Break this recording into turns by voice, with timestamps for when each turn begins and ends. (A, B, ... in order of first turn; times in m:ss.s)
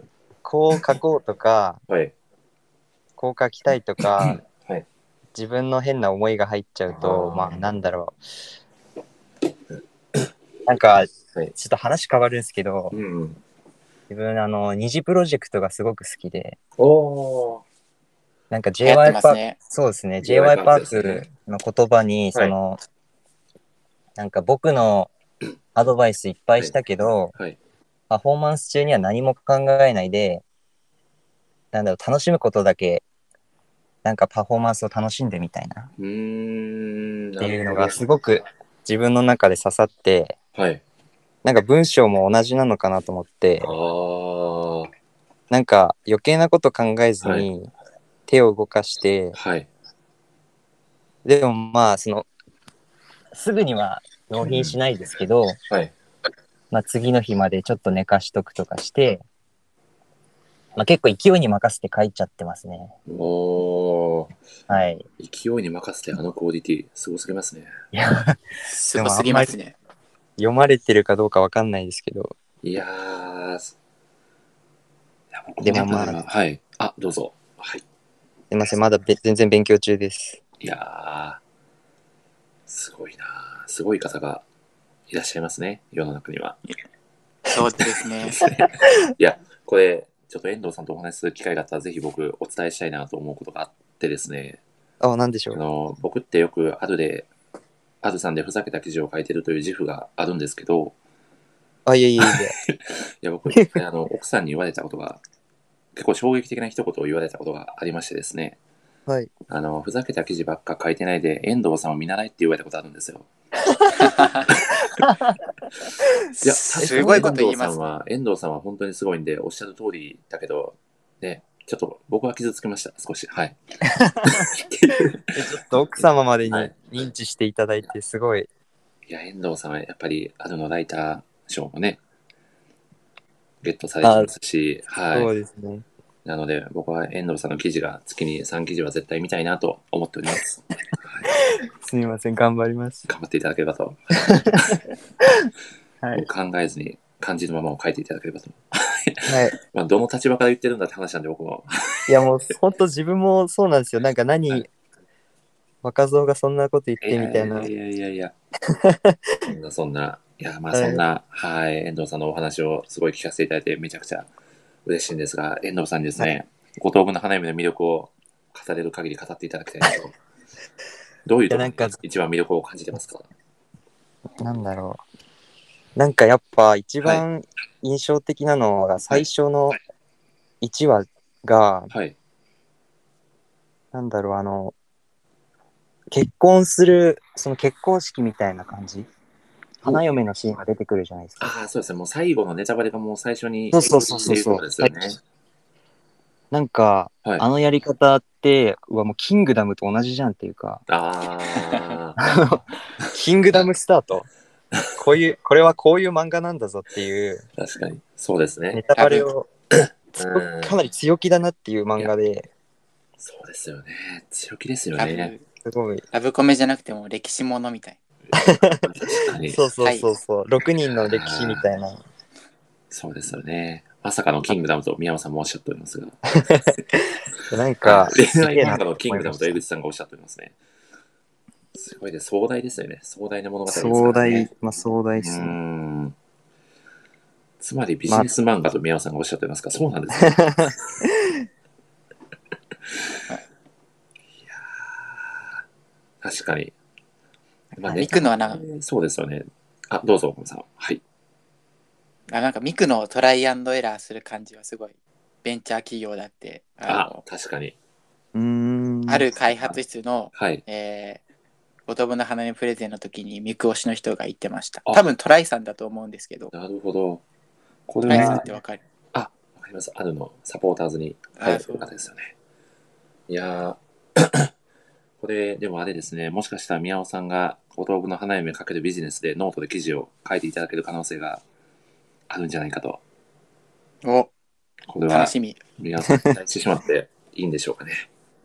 0:00.4-0:01.8 A
0:03.2-0:04.4 A
0:04.2-0:04.8 B
0:05.3-0:08.2 A
0:07.0-0:07.6 B
0:10.7-0:13.0 A
0:12.9-0:13.4 B
0:14.1-0:16.6 A
0:16.8-0:17.6 B
0:18.5-0:22.8 A
0:18.8-0:19.6 C
0:20.2-0:21.3 B
0:24.2-0:25.1 A
0:25.8-0:27.4 A
0:28.1-0:30.4 A
0:31.7-0:33.0 A
0:34.0-0:35.9 A
0:36.0-0:38.0 B
0:37.4-0:40.4 A
0:40.6-0:40.8 B
0:41.4-0:43.7 A
0:43.6-0:44.9 B
0:45.5-0:47.7 A
0:47.2-0:47.5 B
0:48.3-0:49.4 A
0:49.3-0:49.7 B
0:51.2-0:52.3 A
0:53.3-0:55.6 A
0:54.4-0:54.8 B
0:56.7-0:59.2 A
1:00.8-1:02.9 A
1:03.1-1:04.4 B
1:04.7-1:05.1 A
1:05.2-1:07.7 B
1:07.9-1:08.4 A
1:08.7-1:09.8 C
1:09.0-1:09.5 A
1:10.4-1:12.3 A
1:12.6-1:13.7 B
1:15.3-1:17.8 B
1:15.6-1:16.2 A
1:18.5-1:20.4 A
1:20.6-1:21.4 B
1:22.7-1:24.4 B
1:25.1-1:26.6 B
1:27.5-1:28.4 C
1:27.8-1:34.6 B
1:35.0-1:35.6 A
1:35.5-1:37.3 B
1:38.0-1:41.0 B
1:41.9-1:42.6 A
1:42.2-1:45.2 B
1:43.5-1:43.8 A
1:46.0-1:48.6 B
1:49.5-1:53.3 B
1:54.0-1:54.4 C
1:54.5-1:55.0 B
1:56.3-1:57.9 C
1:56.4-2:03.6 B
1:56.8-1:57.3 A
2:03.9-2:04.5 A
2:04.2-2:06.8 B
2:05.3-2:08.5 A
2:09.1-2:12.0 B
2:13.6-2:15.3 B
2:14.0-2:14.3 A
2:15.1-2:15.8 A
2:16.2-2:21.3 B
2:21.3-2:23.1 A
2:23.1-2:24.8 B
2:24.2-2:25.5 A
2:26.1-2:32.2 B
2:29.3-2:29.6 A
2:32.1-2:34.7 A
2:35.8-2:37.7 A
2:37.0-2:38.3 B
2:38.7-2:39.4 A
2:39.5-2:44.3 B
2:40.7-2:41.0 A
2:44.9-2:50.2 B
2:51.3-2:53.3 B
2:51.5-2:52.0 A
2:54.4-2:55.0 A
2:56.0-2:59.8 A
3:00.6-3:01.9 A
3:01.9-3:02.2 B
3:03.9-3:04.7 A
3:06.1-3:09.1 A
3:09.8-3:11.5 A
3:11.4-3:15.2 B
3:13.7-3:15.1 A
3:16.5-3:20.8 A
3:20.9-3:22.2 B
3:22.2-3:24.3 A
3:25.0-3:27.4 A
3:27.6-3:28.8 B
3:28.7-3:29.5 A
3:29.0-3:29.3 C
3:29.7-3:30.8 B
3:30.2-3:32.5 A
3:33.2-3:35.3 B
3:35.0-3:35.4 C
3:35.6-3:36.0 A
3:36.1-3:38.0 C
3:38.2-3:39.7 B
3:38.4-3:38.8 A
3:39.5-3:42.0 A
3:39.8-3:40.1 C
3:40.9-3:41.7 B
3:42.9-3:46.8 B
3:46.3-3:49.6 A
3:47.8-3:50.6 B
3:51.8-3:54.5 B
3:53.7-3:55.6 A
3:55.2-3:56.2 B
3:57.6-4:00.7 B
4:00.2-4:01.1 A
4:04.4-4:05.6 B
4:06.2-4:06.7 B
4:07.8-4:11.0 B
4:07.8-4:08.6 C
4:12.3-4:17.2 C
4:16.9-4:17.8 B
4:18.4-4:19.3 A
4:19.1-4:21.2 C
4:20.3-4:20.6 B
4:21.9-4:26.5 C
4:26.5-4:27.2 B
4:27.9-4:28.5 B
4:28.0-4:28.8 C
4:28.1-4:28.4 A
4:29.1-4:32.3 B
4:31.4-4:31.9 C
4:33.3-4:34.5 B
4:35.2-4:41.4 B
4:42.3-4:43.0 B
4:44.0-4:44.3 C
4:44.9-4:48.1 B
4:45.1-4:45.6 C